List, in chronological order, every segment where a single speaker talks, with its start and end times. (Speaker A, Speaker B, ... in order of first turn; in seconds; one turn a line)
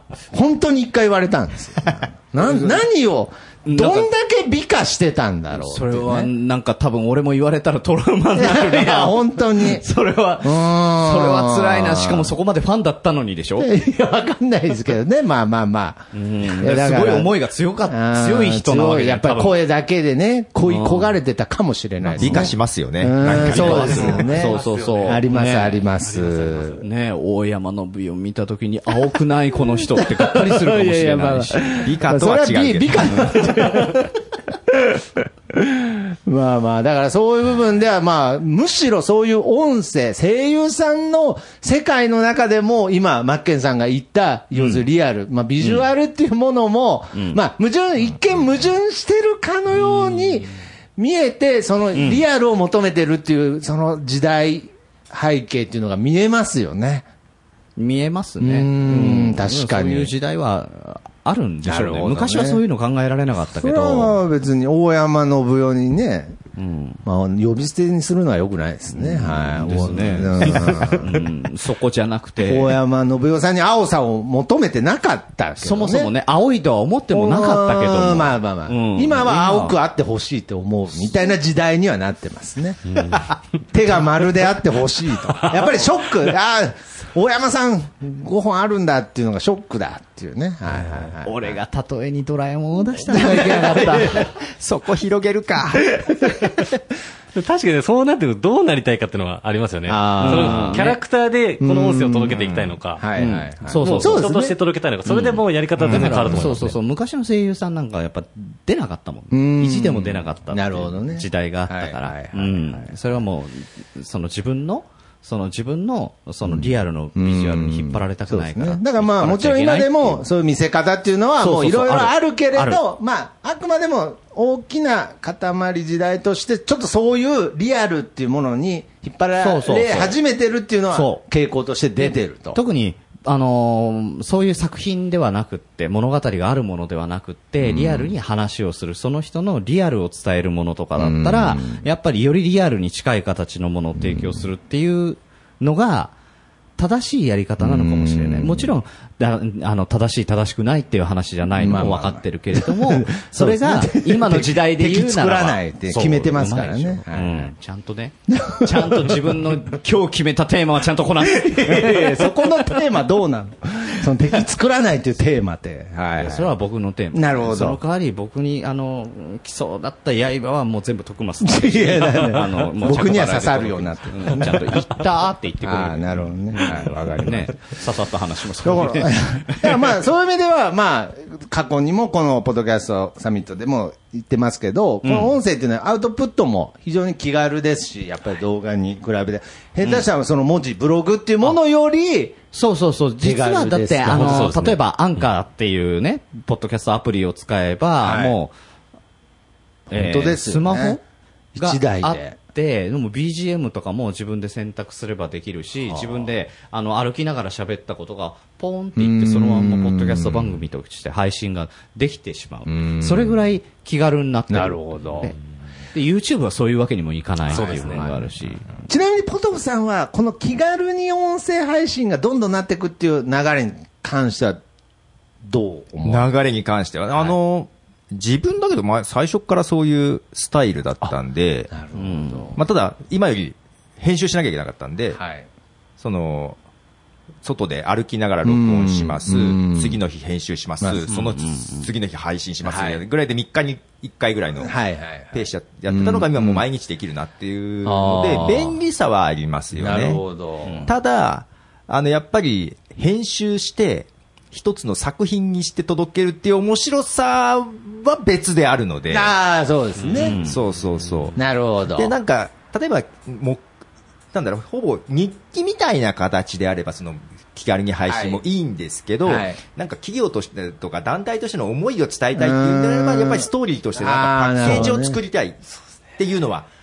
Speaker A: 0.3-6.3
Speaker B: 2.4-2.8
Speaker B: 3.6-4.1
Speaker B: 5.5-13.7
Speaker A: 8.3-9.8
Speaker A: 10.4-12.3
Speaker A: 13.6-17.3
Speaker B: 16.1-19.5
Speaker A: 17.9-26.8
Speaker B: 20.6-21.1
Speaker B: 22.0-22.5
Speaker C: 22.2-24.2
Speaker B: 23.2-25.8
Speaker D: 24.2-26.8
Speaker B: 26.8-31.9
Speaker A: 29.8-57.0
Speaker C: 31.8-33.5
Speaker B: 44.5-44.8
Speaker B: 51.9-52.2
Speaker B: 57.8-64.2
Speaker A: 58.4-60.1
Speaker A: 61.6-62.6
Speaker A: 63.5-66.4
Speaker B: 66.5-67.0
Speaker A: 67.0-71.3
Speaker B: 68.9-72.7
Speaker A: 72.4-76.1
Speaker B: 75.6-79.7
Speaker A: 77.1-91.6
Speaker D: 82.9-83.2
Speaker B: 91.2-94.3
Speaker A: 93.0-94.3
Speaker C: 94.4-96.0
Speaker A: 96.0-96.6
Speaker D: 97.3-103.0
Speaker A: 99.9-101.0
Speaker B: 100.2-100.9
Speaker A: 101.6-104.5
Speaker B: 103.2-104.2
Speaker D: 103.8-106.8
Speaker B: 105.0-120.2
Speaker A: 105.8-106.7
Speaker A: 109.3-112.9
Speaker A: 116.5-132.6
Speaker B: 121.4-122.8
Speaker B: 129.4-130.2
Speaker B: 130.9-131.2
Speaker B: 132.0-146.1
Speaker A: 137.6-138.1
Speaker A: 141.0-141.8
Speaker B: 146.8-162.6
Speaker A: 147.6-148.7
Speaker A: 151.6-157.5
Speaker A: 158.3-159.6
Speaker A: 161.2-166.5
Speaker B: 166.2-179.9
Speaker A: 167.1-167.8
Speaker A: 171.4-174.9
Speaker A: 175.6-177.8
Speaker A: 178.6-192.4
Speaker B: 185.0-185.3
Speaker B: 192.5-198.5
Speaker A: 193.2-194.6
Speaker D: 194.1-194.8
Speaker A: 198.0-198.3
Speaker A: 199.9-201.0
Speaker B: 199.9-201.0
Speaker A: 201.5-202.3
Speaker B: 201.6-215.4
Speaker A: 205.8-206.3
Speaker A: 208.9-210.6
Speaker A: 212.7-213.4
Speaker A: 214.5-215.3
Speaker B: 215.9-218.8
Speaker A: 217.5-218.3
Speaker D: 217.5-218.0
Speaker A: 218.8-224.6
Speaker A: 225.4-226.3
Speaker C: 226.0-231.7
Speaker A: 231.7-232.6
Speaker B: 231.9-232.5
Speaker C: 232.6-235.2
Speaker A: 235.1-235.4
Speaker C: 236.0-236.6
Speaker C: 237.4-244.7
Speaker A: 238.4-240.0
Speaker B: 241.1-241.9
Speaker A: 242.6-243.0
Speaker A: 244.6-246.6
Speaker C: 245.3-250.2
Speaker A: 247.8-248.8
Speaker A: 249.7-250.9
Speaker C: 250.8-259.3
Speaker A: 259.1-260.4
Speaker C: 260.1-261.4
Speaker B: 260.1-260.6
Speaker A: 261.4-262.1
Speaker C: 261.9-263.6
Speaker C: 264.3-275.6
Speaker A: 268.1-268.4
Speaker A: 269.2-269.6
Speaker A: 272.4-275.2
Speaker C: 276.2-276.7